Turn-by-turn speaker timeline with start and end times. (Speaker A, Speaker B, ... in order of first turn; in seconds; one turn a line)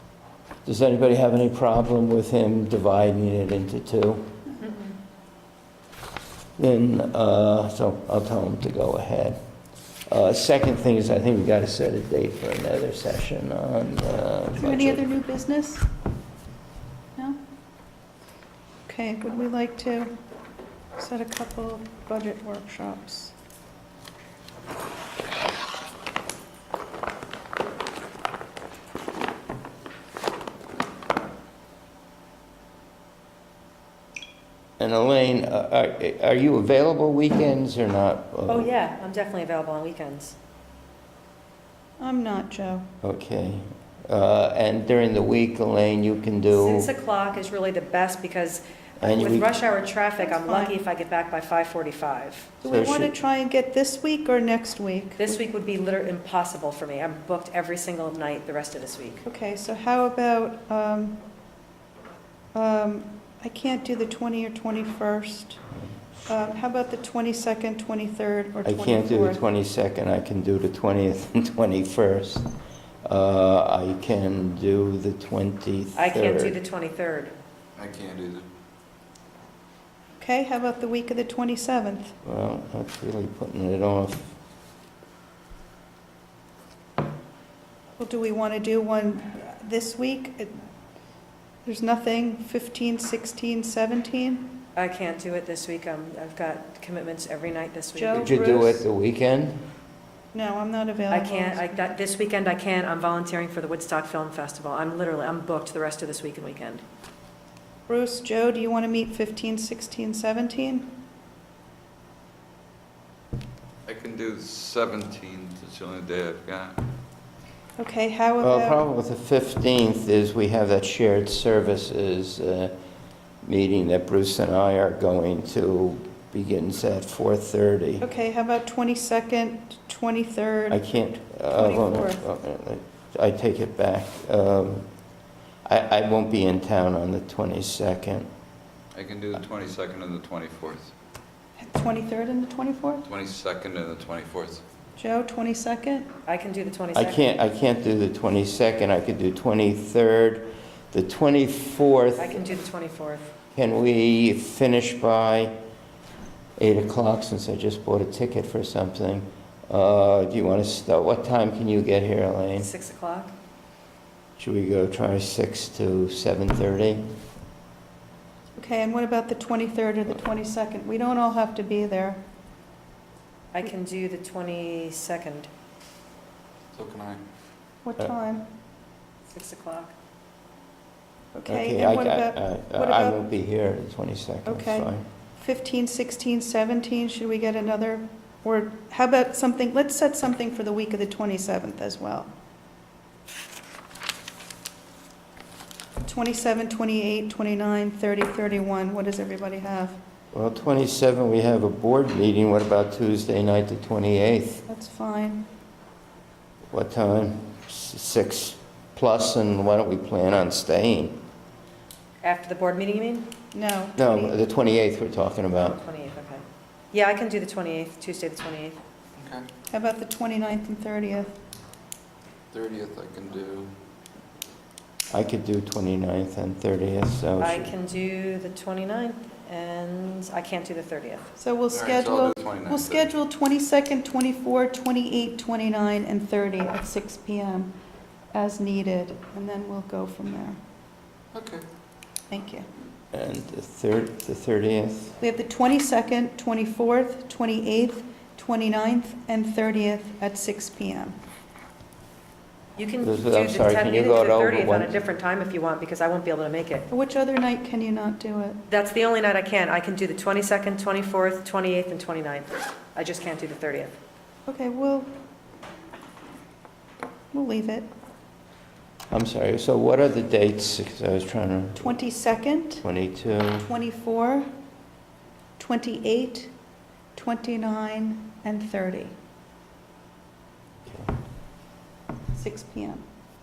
Speaker A: 0.7-4.4
Speaker A: 6.6-9.4
Speaker A: 10.1-15.0
Speaker B: 14.6-15.9
Speaker B: 18.9-20.1
Speaker B: 21.0-23.3
Speaker A: 34.8-38.7
Speaker C: 38.5-40.4
Speaker B: 42.0-42.9
Speaker A: 43.0-46.9
Speaker C: 46.5-52.5
Speaker A: 49.0-49.5
Speaker B: 50.2-50.8
Speaker B: 52.6-55.4
Speaker A: 52.6-53.1
Speaker C: 55.2-59.2
Speaker B: 59.2-61.2
Speaker B: 62.5-65.6
Speaker B: 66.3-69.4
Speaker A: 68.6-72.5
Speaker A: 73.0-76.6
Speaker C: 76.0-77.3
Speaker D: 77.8-78.5
Speaker B: 80.2-82.2
Speaker A: 82.2-84.3
Speaker B: 88.0-90.6
Speaker B: 91.7-94.5
Speaker C: 94.8-98.3
Speaker B: 98.0-98.8
Speaker A: 98.1-99.6
Speaker B: 100.3-101.9
Speaker C: 101.1-106.8
Speaker B: 107.9-111.0
Speaker D: 113.9-116.8
Speaker B: 117.8-118.8
Speaker A: 118.4-122.7
Speaker A: 123.4-128.1
Speaker B: 128.0-130.9
Speaker A: 130.7-134.9
Speaker B: 131.5-132.2
Speaker A: 135.7-138.3
Speaker D: 138.9-140.9
Speaker B: 141.6-143.1
Speaker D: 143.1-144.6
Speaker B: 145.0-146.1
Speaker C: 146.3-147.3
Speaker A: 146.9-152.4
Speaker C: 152.2-153.3
Speaker A: 153.5-155.6
Speaker A: 156.6-162.7
Speaker C: 162.6-163.3
Speaker A: 164.4-167.1
Speaker B: 168.6-172.2
Speaker C: 173.5-175.5
Speaker D: 176.7-177.2
Speaker B: 177.8-178.5
Speaker C: 179.3-179.9
Speaker B: 181.3-183.2
Speaker A: 181.5-185.1
Speaker B: 184.4-192.3
Speaker B: 196.0-200.0
Speaker A: 200.3-204.7
Speaker B: 204.7-205.4
Speaker A: 206.7-211.2
Speaker C: 212.2-213.3
Speaker B: 213.5-214.4
Speaker A: 214.0-215.8
Speaker C: 215.6-218.8
Speaker D: 219.2-219.5
Speaker B: 219.7-221.3
Speaker D: 222.5-223.7
Speaker A: 225.1-227.7
Speaker C: 227.4-231.3
Speaker B: 231.4-237.7
Speaker D: 231.7-233.1
Speaker B: 238.3-240.6
Speaker D: 241.3-241.7
Speaker B: 242.3-242.7
Speaker A: 243.1-245.2
Speaker B: 245.2-251.2
Speaker C: 252.8-256.9
Speaker A: 253.0-255.0
Speaker B: 256.9-258.6
Speaker C: 258.7-263.9
Speaker B: 264.5-265.1
Speaker B: 267.3-267.9
Speaker A: 269.1-272.0
Speaker B: 271.8-272.9
Speaker A: 272.8-273.7
Speaker B: 273.7-274.5
Speaker B: 275.6-276.5
Speaker B: 277.2-279.1
Speaker B: 282.3-283.0